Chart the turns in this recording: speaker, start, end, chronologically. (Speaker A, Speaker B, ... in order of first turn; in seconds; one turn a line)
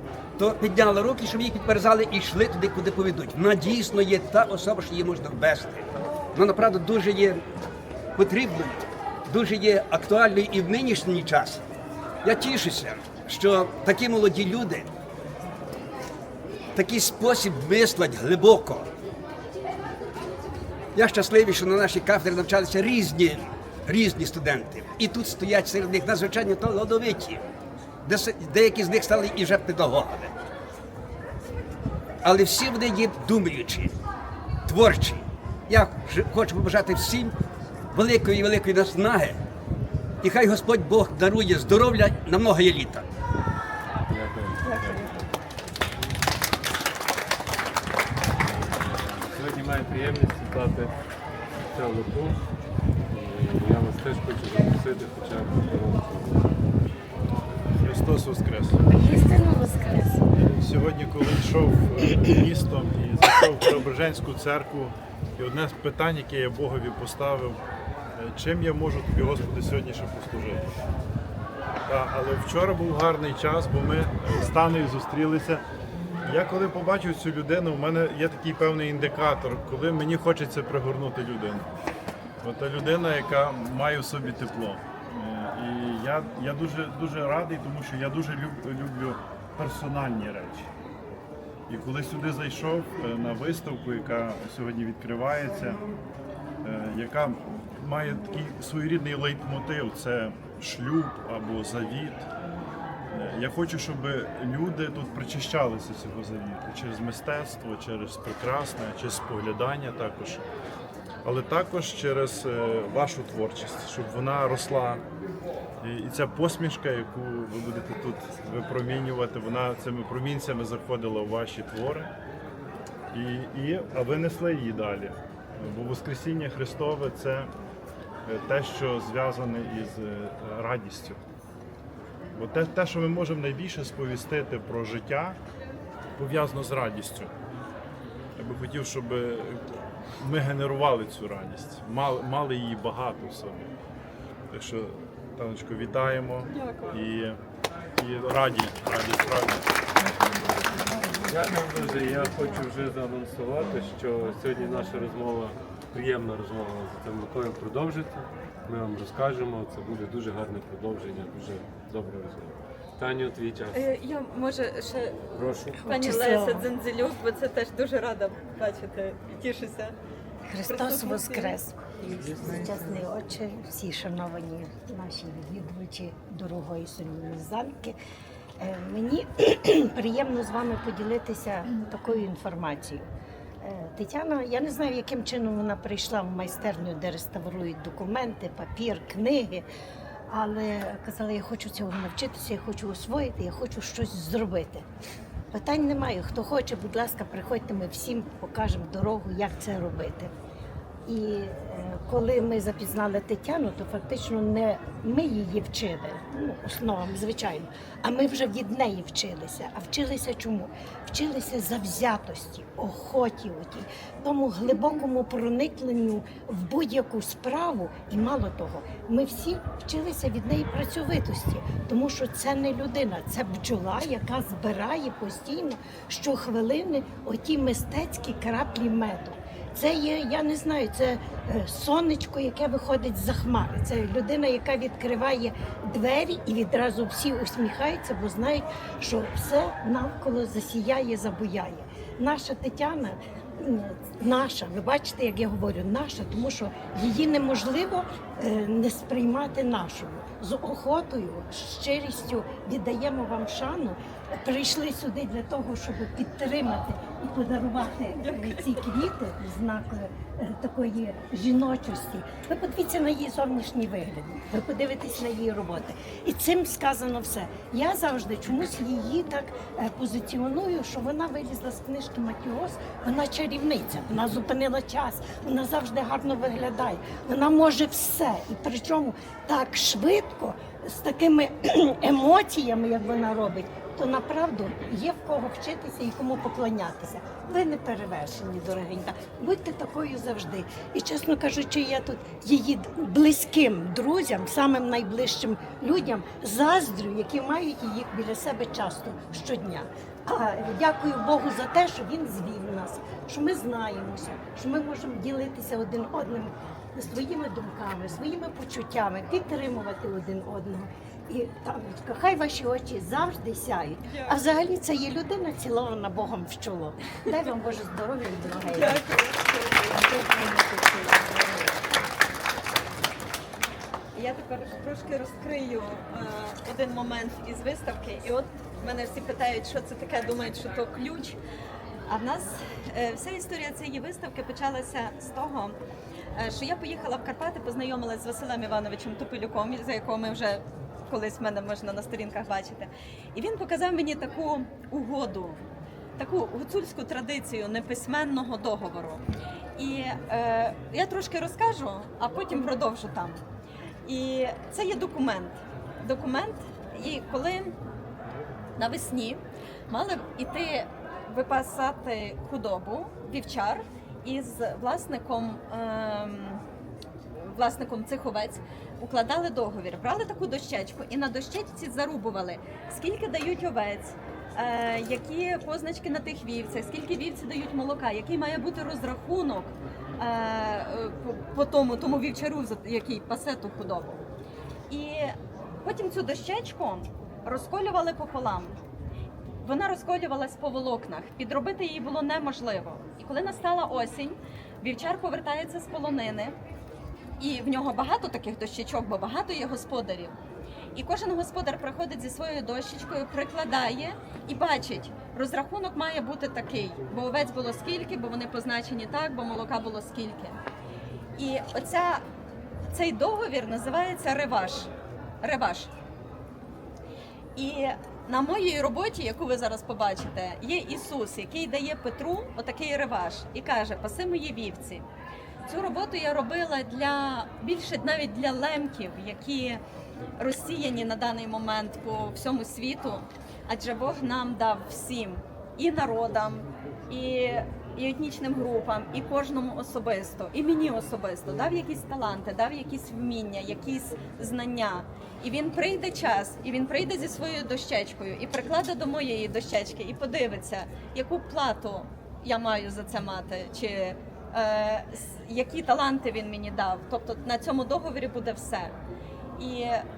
Speaker A: 0.4-4.1
Speaker A: 4.7-5.7
Speaker A: 6.3-7.3
Speaker A: 8.2-8.7
Speaker A: 9.3-11.5
Speaker A: 12.3-14.8
Speaker A: 16.8-18.8
Speaker A: 20.9-27.4
Speaker A: 28.1-30.2
Speaker A: 32.2-33.7
Speaker A: 34.7-35.1
Speaker A: 35.7-37.3
Speaker A: 37.9-39.3
Speaker A: 40.2-42.9
Speaker B: 44.1-45.2
Speaker C: 44.6-45.1
Speaker B: 48.4-50.9
Speaker B: 51.6-52.4
Speaker B: 53.1-56.5
Speaker D: 57.8-58.8
Speaker E: 58.9-60.2
Speaker D: 60.3-67.6
Speaker D: 68.2-70.7
Speaker D: 71.8-75.6
Speaker D: 76.2-81.7
Speaker D: 82.4-90.7
Speaker D: 91.7-95.8
Speaker D: 96.6-102.3
Speaker D: 103.1-110.4
Speaker D: 111.2-115.0
Speaker D: 115.8-122.1
Speaker D: 123.1-127.5
Speaker D: 128.2-131.2
Speaker D: 132.3-135.4
Speaker D: 136.2-137.3
Speaker D: 138.3-139.6
Speaker D: 140.2-143.7
Speaker D: 144.5-147.4
Speaker C: 146.5-146.9
Speaker D: 148.0-149.7
Speaker B: 151.2-163.8
Speaker C: 163.7-165.3
Speaker B: 165.3-165.8
Speaker E: 165.8-166.7
Speaker C: 165.8-169.9
Speaker E: 170.4-177.9
Speaker C: 170.7-171.6
Speaker E: 178.6-183.1
Speaker E: 183.6-189.6
Speaker E: 190.3-194.8
Speaker E: 195.5-200.3
Speaker E: 201.1-319.0
Speaker C: 258.1-258.8
Speaker C: 314.1-314.4
Speaker C: 318.7-321.8
Speaker C: 324.1-331.4
Speaker C: 332.1-335.7
Speaker C: 336.4-345.6
Speaker C: 346.2-349.2
Speaker C: 349.8-353.4
Speaker C: 354.0-357.8
Speaker C: 358.8-366.6
Speaker C: 367.4-384.2
Speaker C: 384.9-388.8
Speaker C: 389.6-396.6
Speaker C: 397.4-400.3
Speaker C: 400.9-410.6
Speaker C: 411.4-412.2
Speaker C: 412.9-414.9
Speaker C: 415.4-415.9
Speaker C: 417.6-425.0
Speaker C: 425.7-429.8
Speaker C: 430.4-458.9
Speaker C: 459.6-460.0